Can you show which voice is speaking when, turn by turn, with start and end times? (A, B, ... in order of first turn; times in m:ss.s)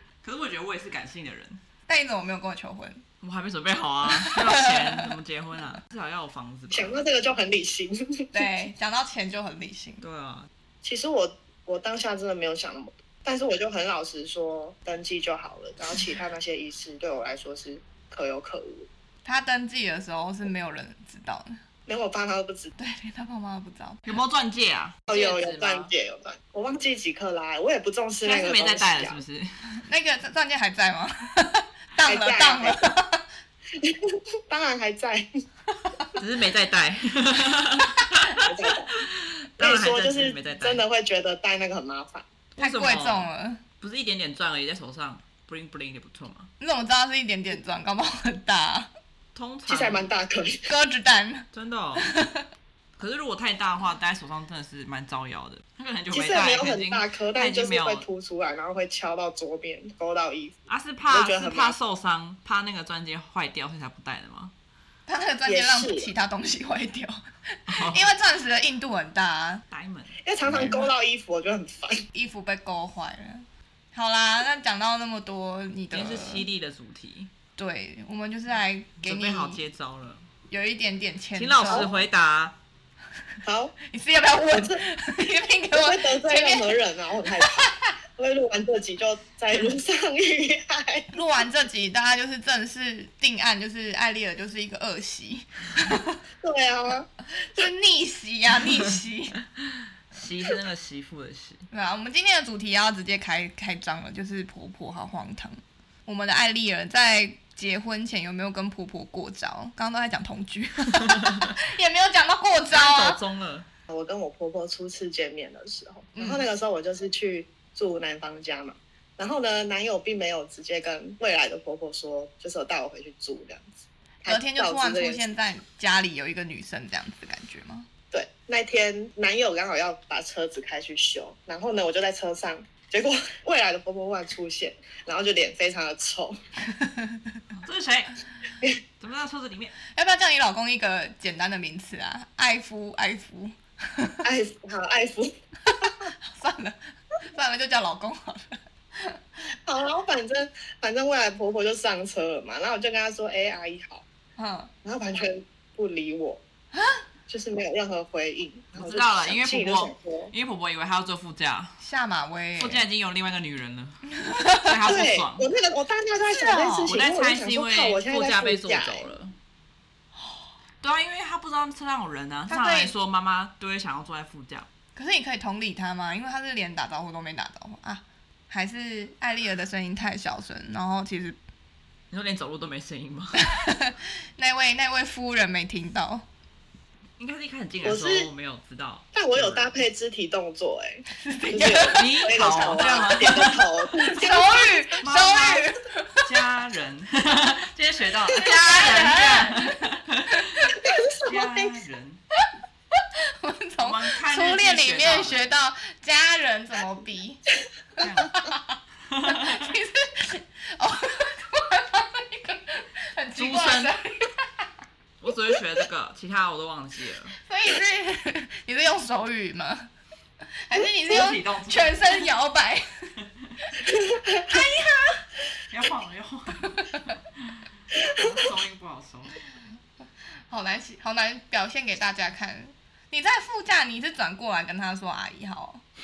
0:00.2-0:01.6 A
0:01.9-0:03.0 B
0:03.2-0:07.0 A
0:04.1-0:05.1 B
0:06.7-0:08.5 C
0:08.3-0:10.0 B
0:10.0-0:10.5 A
0:10.8-0:18.9 C
0:19.2-0:21.6 B
0:21.9-0:22.7 C
0:22.8-0:24.2 B
0:24.0-0:25.9 A
0:25.1-0:29.2 C
0:28.2-0:29.8 A
0:29.8-0:33.2 B
0:32.0-0:32.9 C
0:33.7-0:35.3 C
0:36.2-0:40.8 A
0:38.4-0:38.9 C
0:39.6-0:42.3 C
0:42.5-0:43.3 A
0:42.6-0:43.6 B
0:43.8-0:46.5 A
0:46.6-0:48.9 B
0:49.3-0:50.1 A
0:49.7-0:50.7 C
0:50.7-0:52.5 B
0:51.5-0:52.1 A
0:53.0-0:58.0 A
0:56.1-1:00.5 C
1:00.7-1:04.5 A
1:01.1-1:01.8 C
1:05.1-1:09.6 B
1:05.4-1:06.1 C
1:07.7-1:08.1 A
1:09.7-1:10.8 A
1:10.2-1:12.0 C
1:10.5-1:10.8 B
1:12.1-1:16.4 B
1:15.9-1:17.3 A
1:17.6-1:19.6 B
1:19.0-1:20.3 A
1:20.5-1:21.9 B
1:21.4-1:22.6 A
1:21.7-1:22.0 C
1:23.4-1:23.7 C
1:23.8-1:26.8 B
1:24.5-1:24.8 C
1:25.7-1:31.1 C
1:27.4-1:27.9 B
1:31.1-1:36.2 B
1:36.4-1:37.6 C
1:37.5-1:39.4 B
1:40.1-1:41.6 A
1:41.7-1:53.2 B
1:50.9-1:51.5 A
1:52.7-1:53.6 A
1:53.9-2:05.3 C
1:56.2-1:56.4 B
2:04.2-2:07.9 B
2:08.1-2:16.4 C
2:16.7-2:17.4 B
2:17.5-2:18.2 A
2:19.0-2:19.7 A
2:19.9-2:24.2 B
2:24.2-2:26.1 C
2:26.2-2:26.8 B
2:27.3-2:29.2 B
2:29.6-2:34.0 C
2:34.4-2:34.7 B
2:34.8-2:36.4 C
2:36.7-2:37.0 B
2:37.3-2:40.3 C
2:38.8-2:41.8 A
2:41.8-2:42.8 B
2:42.6-2:44.0 A
2:44.2-2:44.7 B
2:44.6-2:45.4 A
2:44.8-2:49.1 C
2:46.3-2:46.9 B
2:46.8-2:49.3 A
2:50.8-2:54.7 A
2:52.5-2:52.9 B
2:54.9-3:01.4 B
3:02.1-3:03.5 A
3:03.4-3:06.2 B
3:07.2-3:09.8 A
3:07.8-3:08.3 C
3:09.1-3:14.8 C
3:11.2-3:12.2 B
3:11.9-3:13.7 A
3:14.1-3:16.2 B
3:15.0-3:15.7 A
3:16.2-3:22.2 A
3:18.4-3:20.7 B
3:20.8-3:21.8 C
3:23.4-3:27.4 B
3:23.8-3:25.4 A
3:28.0-3:34.6 B
3:28.0-3:28.5 A
3:29.1-3:29.7 A
3:33.4-3:34.0 A
3:35.2-3:37.4 A
3:37.4-3:39.9 B
3:40.7-3:42.9 B
3:41.1-3:42.3 A
3:43.8-3:44.6 C
3:44.5-3:45.3 B
3:45.7-3:49.4 A
3:46.8-3:47.1 B
3:50.5-3:55.8 B